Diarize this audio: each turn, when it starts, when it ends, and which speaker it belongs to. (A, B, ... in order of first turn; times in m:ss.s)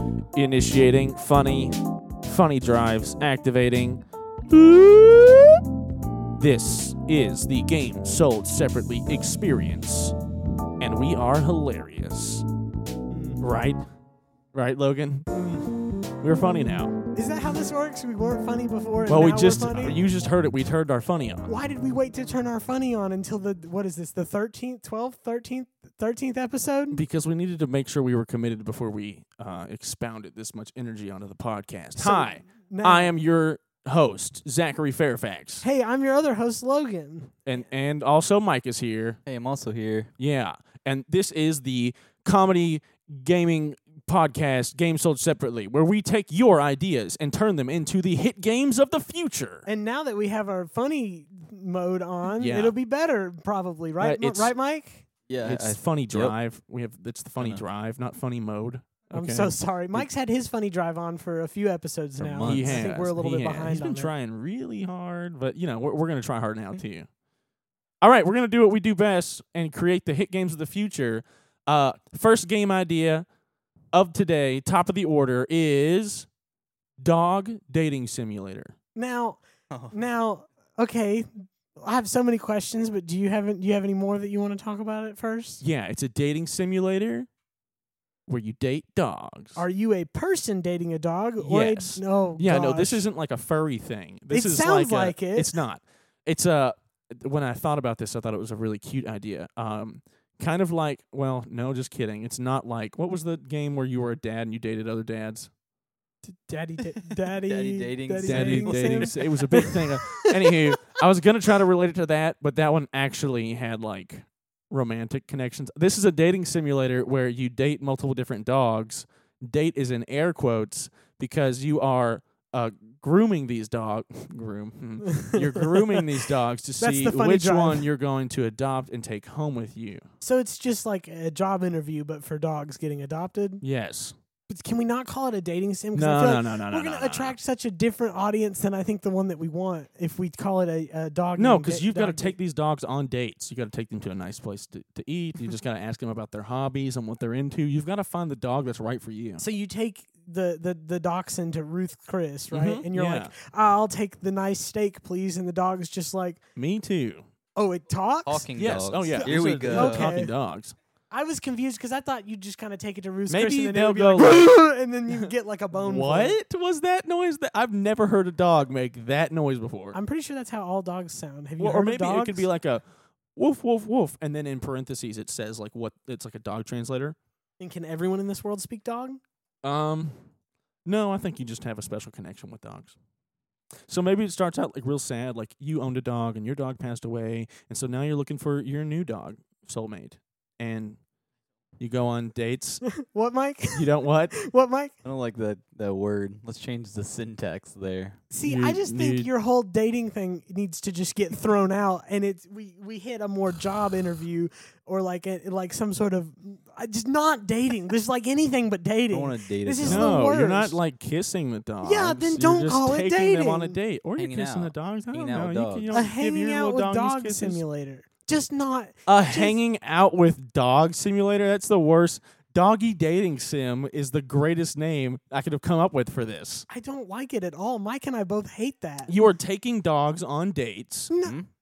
0:00.3-0:05.6 A
0:06.4-0:10.1 A
0:10.8-0:12.4 A
0:13.1-0:13.4 B
0:13.4-0:13.8 A
0:14.5-0:15.3 A
0:15.3-0:15.7 B
0:16.2-0:16.9 A
0:17.1-0:20.0 B
0:19.1-0:21.5 A
0:21.4-0:27.0 B
0:26.9-0:35.6 A
0:32.0-0:33.2 B
0:35.6-0:37.4 B
0:37.4-0:39.2 A
0:39.3-0:40.1 C
0:40.2-0:49.6 A
0:49.6-0:55.0 B
0:52.3-0:52.7 A
0:54.0-0:54.5 A
0:55.3-0:56.3 C
0:55.4-0:59.5 A
0:59.1-1:04.1 B
1:02.2-1:02.9 C
1:02.4-1:07.1 A
1:08.0-1:13.2 A
1:13.9-1:16.3 A
1:17.0-1:18.7 A
1:19.0-1:25.6 B
1:25.6-1:27.3 A
1:28.3-1:29.6 A
1:29.6-1:33.0 B
1:31.4-1:45.5 A
1:34.3-1:35.5 B
1:46.2-1:50.6 B
1:47.5-1:49.2 C
1:48.2-2:10.0 A
2:05.0-2:06.2 B
2:06.8-2:07.8 B
2:10.2-2:13.6 B
2:13.6-2:14.1 A
2:14.5-2:22.4 B
2:15.9-2:17.4 A
2:21.4-2:29.4 A
2:29.4-2:36.4 B
2:32.5-2:33.3 A
2:36.6-2:37.2 A
2:37.6-2:38.4 B
2:38.2-2:40.1 C
2:38.6-2:40.8 A
2:39.0-2:40.3 B
2:41.1-2:46.4 B
2:43.3-2:44.5 A
2:45.8-2:50.0 A
2:49.9-2:52.5 B
2:51.6-2:52.8 A
2:53.4-2:57.2 A
2:57.6-2:59.2 B
2:59.6-3:00.2 A
3:00.8-3:03.0 A
3:03.9-3:11.0 A
3:11.8-3:12.8 A
3:13.0-3:14.9 B
3:13.7-3:14.4 A
3:15.0-3:18.2 C
3:18.3-3:30.8 B
3:18.4-3:19.3 A
3:29.1-3:30.2 C
3:29.8-3:37.6 A
3:31.8-3:33.8 B
3:34.2-3:36.0 C
3:35.9-3:39.6 B
3:39.1-3:46.7 A
3:46.7-3:49.1 B
3:49.1-3:51.1 A
3:51.1-3:51.4 B